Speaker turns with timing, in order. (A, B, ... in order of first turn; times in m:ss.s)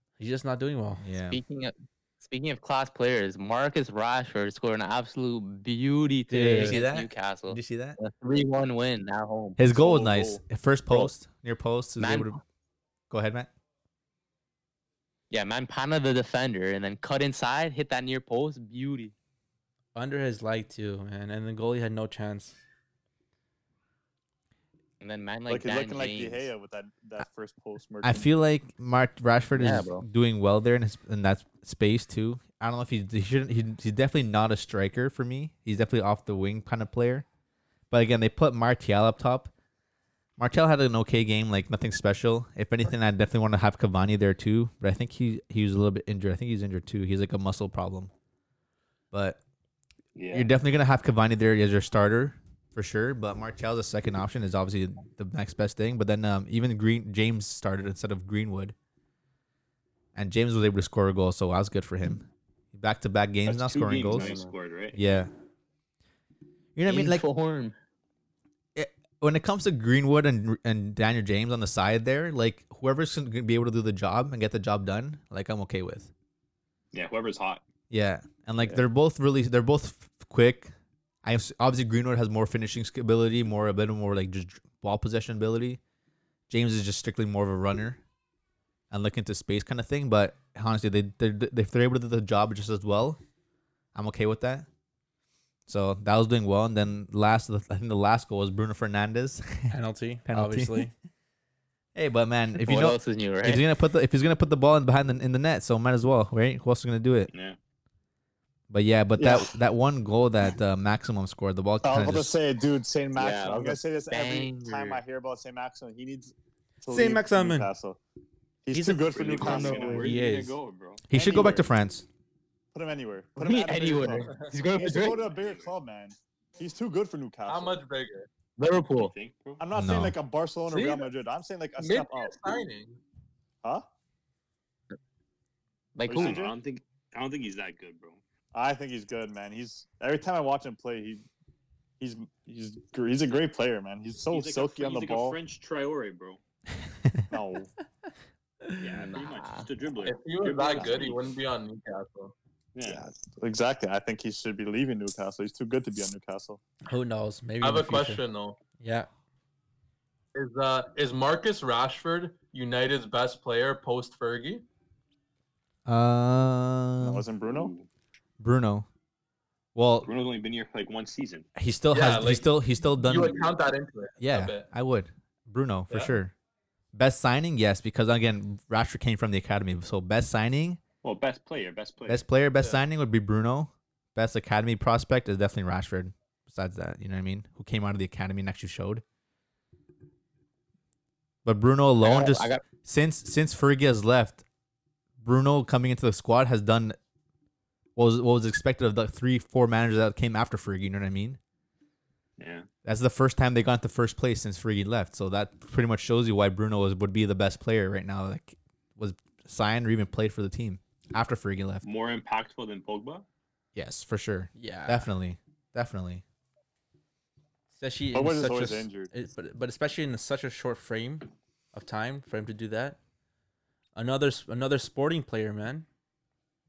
0:00.2-0:01.1 A
0:01.0-0:01.4 B
0:01.2-0:09.7 C
0:06.3-0:06.8 A
0:06.5-0:08.0 B
0:09.6-0:12.4 B
0:09.8-0:10.3 D
0:12.0-0:12.4 C
0:13.1-0:13.5 B
0:15.3-0:19.1 C
0:19.9-0:22.6 A
0:25.0-0:26.5 C
0:25.5-0:28.2 D
0:28.0-0:37.2 B
0:29.6-0:30.0 C
0:37.9-0:39.5 B
0:40.4-0:48.1 B
0:49.1-0:49.4 B
0:50.2-0:50.5 E
0:50.3-0:58.7 B
1:00.1-1:04.3 B
1:03.4-1:05.2 E
1:04.0-1:04.5 C
1:04.9-1:05.3 B
1:06.8-1:07.2 B
1:06.9-1:07.8 C
1:08.7-1:16.1 B
1:16.9-1:17.6 E
1:17.9-1:20.7 B
1:21.2-1:25.8 B
1:26.5-1:28.0 B
1:28.9-1:33.2 B
1:33.9-1:34.7 B
1:35.7-1:40.9 B
1:39.7-1:40.9 A
1:41.9-1:47.3 B
1:42.6-1:43.6 C
1:47.3-1:47.6 E
1:48.7-1:52.3 B
1:49.2-1:49.5 D
1:51.8-1:58.0 D
1:53.2-1:53.8 E
1:54.1-1:55.0 C
1:56.9-1:57.7 A
1:58.6-2:00.1 D
1:58.7-2:00.6 A
1:59.1-2:01.0 E
1:59.4-1:59.7 C
2:01.1-2:02.0 B
2:01.1-2:01.7 D
2:02.7-2:07.8 D
2:03.4-2:05.2 C
2:04.9-2:05.7 E
2:07.5-2:08.3 F
2:08.6-2:09.1 C
2:08.9-2:09.6 E
2:09.6-2:12.5 D
2:09.7-2:10.2 B
2:10.7-2:11.1 F
2:11.8-2:13.0 F
2:15.9-2:16.4 C
2:16.1-2:16.5 D
2:16.1-2:18.2 E
2:18.5-2:21.2 D
2:22.0-2:25.4 D
2:24.3-2:26.4 E
2:27.3-2:27.7 D
2:28.6-2:28.9 A
2:28.8-2:31.2 E
2:28.9-2:29.7 C
2:30.0-2:32.3 F
2:32.7-2:33.1 E
2:32.8-2:36.6 D
2:36.8-2:38.2 A
2:37.6-2:38.6 F
2:38.8-2:39.1 A
2:40.3-2:44.6 F
2:45.8-2:47.3 B
2:47.0-2:47.7 D
2:47.4-2:47.9 E
2:48.4-2:48.9 B
2:49.7-2:50.1 B
2:50.0-2:51.5 E
2:51.6-2:53.5 B
2:51.9-2:54.7 F
2:54.2-2:56.3 B
2:55.9-2:56.1 F
2:56.9-3:00.8 B
3:01.0-3:02.2 E
3:02.0-3:09.0 B
3:11.4-3:14.4 B
3:12.0-3:12.6 C
3:15.2-3:17.0 B
3:18.0-3:21.4 B
3:22.4-3:22.7 E
3:22.8-3:31.8 B
3:31.8-3:33.2 E
3:33.7-3:36.2 B
3:34.5-3:35.1 A
3:37.8-3:43.0 A
3:38.1-3:39.1 D
3:43.9-3:45.8 A